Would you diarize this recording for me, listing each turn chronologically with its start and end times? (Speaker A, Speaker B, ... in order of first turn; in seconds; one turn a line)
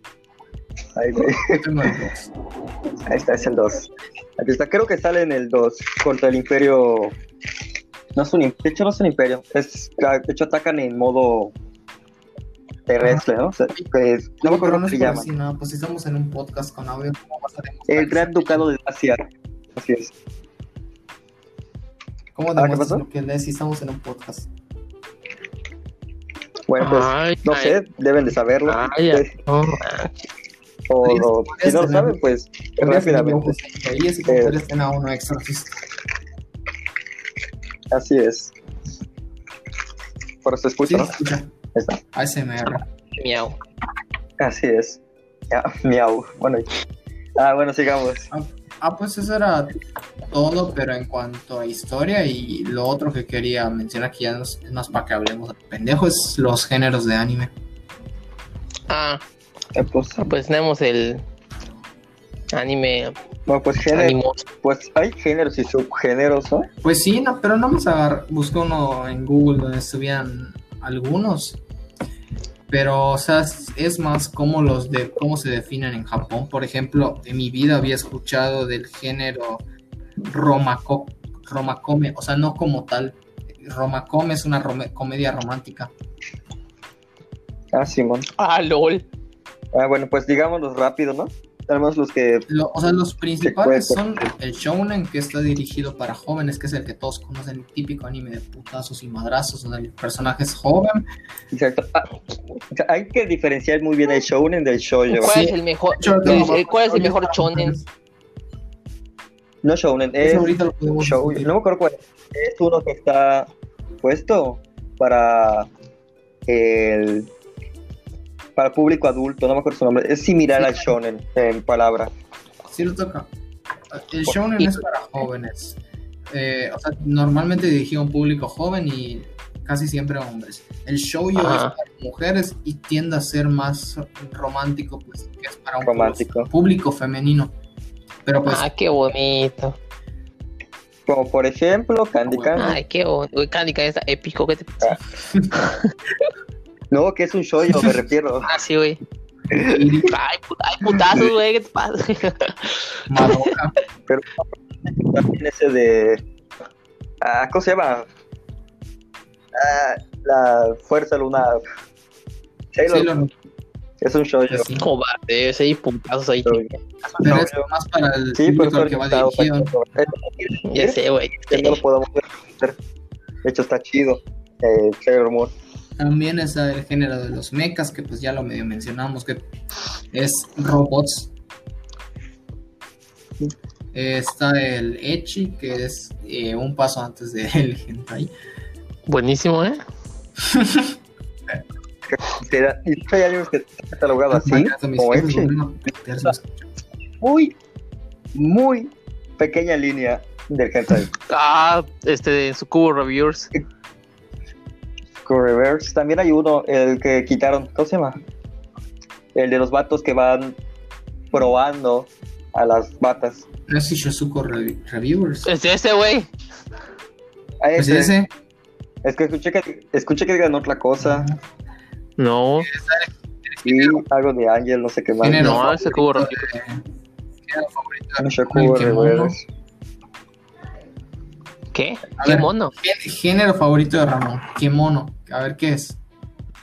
Speaker A: 0.9-1.9
Speaker B: 1.4-2.3
Speaker A: 3.0-7.2
Speaker A: 8.1-11.5
Speaker A: 12.9-15.3
Speaker B: 13.0-13.9
Speaker B: 14.4-18.7
Speaker A: 17.9-19.2
Speaker A: 19.7-20.1
Speaker B: 22.3-24.5
Speaker A: 22.6-23.0
Speaker A: 26.7-29.3
Speaker C: 26.8-27.8
Speaker C: 28.7-30.1
Speaker A: 30.9-33.5
Speaker B: 31.0-32.2
Speaker B: 32.8-35.8
Speaker A: 34.3-34.6
Speaker A: 37.9-38.5
Speaker A: 40.4-41.1
Speaker B: 40.8-41.5
Speaker A: 41.7-42.0
Speaker B: 42.1-42.8
Speaker C: 43.1-43.6
Speaker A: 44.4-46.7
Speaker A: 47.4-48.3
Speaker B: 48.3-49.8
Speaker B: 50.3-57.5
Speaker C: 58.9-59.2
Speaker A: 59.7-60.2
Speaker C: 60.2-61.2
Speaker C: 62.5-63.1
Speaker A: 63.5-66.7
Speaker C: 63.9-64.4
Speaker B: 66.8-71.6
Speaker B: 72.7-79.6
Speaker B: 80.2-85.9
Speaker A: 87.7-88.3
Speaker C: 88.4-89.0
Speaker A: 89.7-92.5
Speaker B: 92.5-101.0
Speaker A: 93.4-94.1
Speaker A: 101.5-102.1
Speaker A: 102.7-105.4
Speaker C: 105.1-107.7
Speaker B: 105.2-107.9
Speaker A: 106.2-106.6
Speaker A: 109.6-113.5
Speaker B: 110.2-111.5
Speaker A: 114.0-115.7
Speaker A: 116.5-117.3
Speaker A: 118.5-122.1
Speaker B: 122.7-123.3
Speaker B: 123.9-125.8
Speaker B: 126.3-137.5
Speaker C: 131.3-131.7
Speaker A: 135.8-136.5
Speaker B: 138.2-138.6
Speaker C: 138.5-139.8
Speaker A: 141.1-142.8
Speaker C: 142.5-145.0
Speaker C: 145.5-145.9
Speaker A: 146.9-148.5
Speaker C: 148.4-149.0
Speaker A: 149.5-149.9
Speaker B: 149.6-150.1
Speaker C: 150.0-153.5
Speaker A: 151.1-151.3
Speaker B: 153.1-153.8
Speaker A: 154.1-156.2
Speaker A: 157.2-158.1
Speaker A: 159.5-161.6
Speaker A: 162.7-163.1
Speaker B: 162.9-163.3
Speaker A: 164.0-164.7
Speaker B: 164.5-164.8
Speaker C: 164.8-166.7
Speaker A: 166.4-167.6
Speaker B: 167.2-169.7
Speaker A: 168.3-172.8
Speaker C: 170.7-171.8
Speaker A: 173.4-175.5
Speaker B: 176.0-179.4
Speaker B: 180.1-181.3
Speaker B: 183.9-188.3
Speaker C: 189.1-189.8
Speaker B: 190.4-190.9
Speaker A: 192.1-195.5
Speaker B: 194.3-196.6
Speaker A: 197.2-197.6
Speaker A: 198.3-201.1
Speaker C: 201.3-203.5
Speaker A: 205.2-208.2
Speaker A: 209.3-210.6
Speaker A: 211.3-213.4
Speaker B: 213.7-215.5
Speaker C: 215.4-216.3
Speaker A: 217.6-218.1
Speaker B: 217.8-218.3
Speaker A: 219.0-221.3
Speaker B: 221.0-221.4
Speaker C: 222.2-222.7
Speaker B: 222.6-224.0
Speaker A: 223.6-225.8
Speaker B: 225.2-226.8
Speaker C: 225.3-226.4
Speaker B: 227.5-229.3
Speaker A: 228.2-229.4
Speaker C: 231.7-232.7
Speaker B: 232.2-236.0